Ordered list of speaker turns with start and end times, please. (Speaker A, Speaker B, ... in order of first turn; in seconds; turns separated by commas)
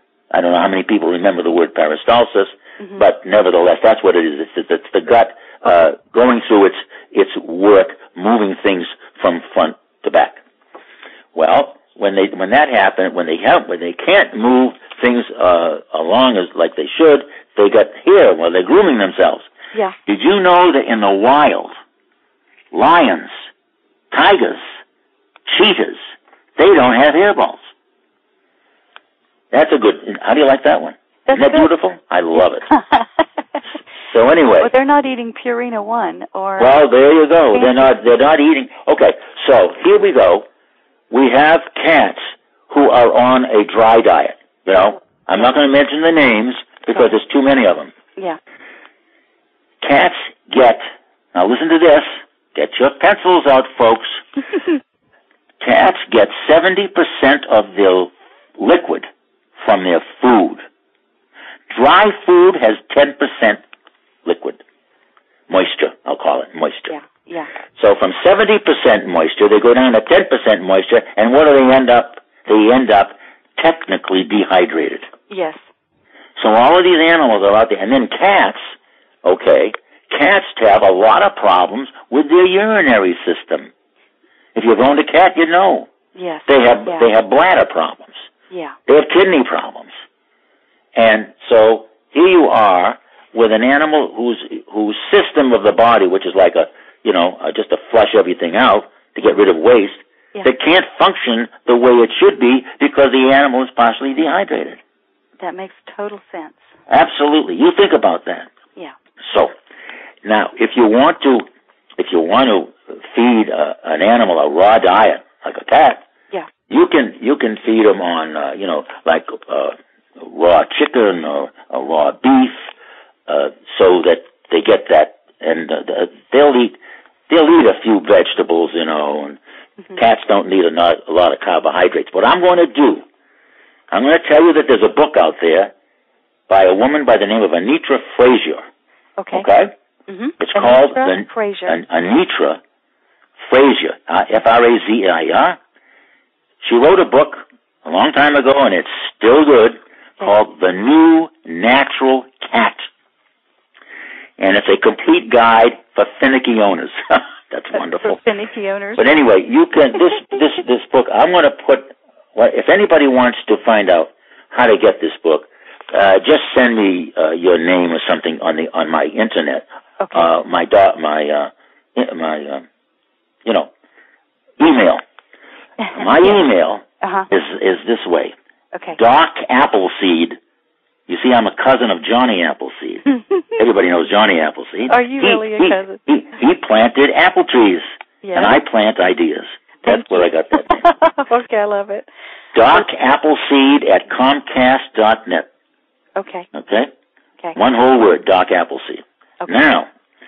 Speaker A: 0.3-10.4, Speaker A: 11.3-19.5, Speaker A: 20.1-21.7, Speaker A: 22.7-23.4, Speaker A: 24.1-24.6, Speaker A: 25.5-26.0, Speaker A: 26.6-27.6, Speaker A: 29.5-32.7, Speaker B: 31.3-31.7, Speaker B: 32.7-33.0, Speaker A: 34.1-34.7, Speaker B: 34.6-36.8, Speaker A: 36.6-40.5, Speaker B: 37.5-37.9, Speaker A: 41.1-47.9, Speaker A: 49.8-54.2, Speaker A: 55.6-60.6, Speaker A: 61.7-63.6, Speaker A: 64.2-64.6, Speaker A: 65.5-66.9, Speaker B: 66.9-67.5, Speaker A: 67.8-75.1, Speaker B: 75.3-75.6, Speaker A: 76.4-78.7, Speaker A: 79.2-83.7, Speaker A: 84.5-85.9, Speaker B: 86.2-87.0, Speaker A: 86.5-88.2, Speaker B: 88.5-88.8, Speaker A: 88.9-89.9, Speaker A: 91.0-104.8, Speaker B: 105.4-106.6, Speaker A: 106.9-108.5, Speaker A: 109.2-109.5, Speaker A: 110.2-111.5, Speaker A: 112.0-116.0, Speaker A: 116.7-122.7, Speaker A: 123.3-129.4, Speaker A: 129.9-133.0, Speaker A: 133.9-135.7, Speaker A: 136.5-138.6, Speaker B: 139.2-139.5, Speaker A: 139.3-139.7, Speaker B: 140.1-141.8, Speaker A: 140.4-142.6, Speaker A: 143.4-145.6, Speaker A: 146.6-152.9, Speaker A: 154.4-158.2, Speaker B: 157.7-159.0, Speaker A: 159.0-172.7, Speaker B: 170.0-170.3, Speaker A: 173.4-173.7, Speaker A: 174.6-175.0, Speaker B: 175.8-176.5, Speaker A: 175.9-178.3, Speaker B: 177.0-177.3, Speaker B: 178.7-179.0, Speaker A: 179.0-180.4, Speaker A: 181.1-190.9, Speaker B: 184.9-186.0, Speaker B: 188.2-188.6, Speaker B: 189.8-192.1, Speaker A: 192.5-195.5, Speaker B: 196.2-196.5, Speaker A: 196.5-196.9, Speaker A: 197.6-199.9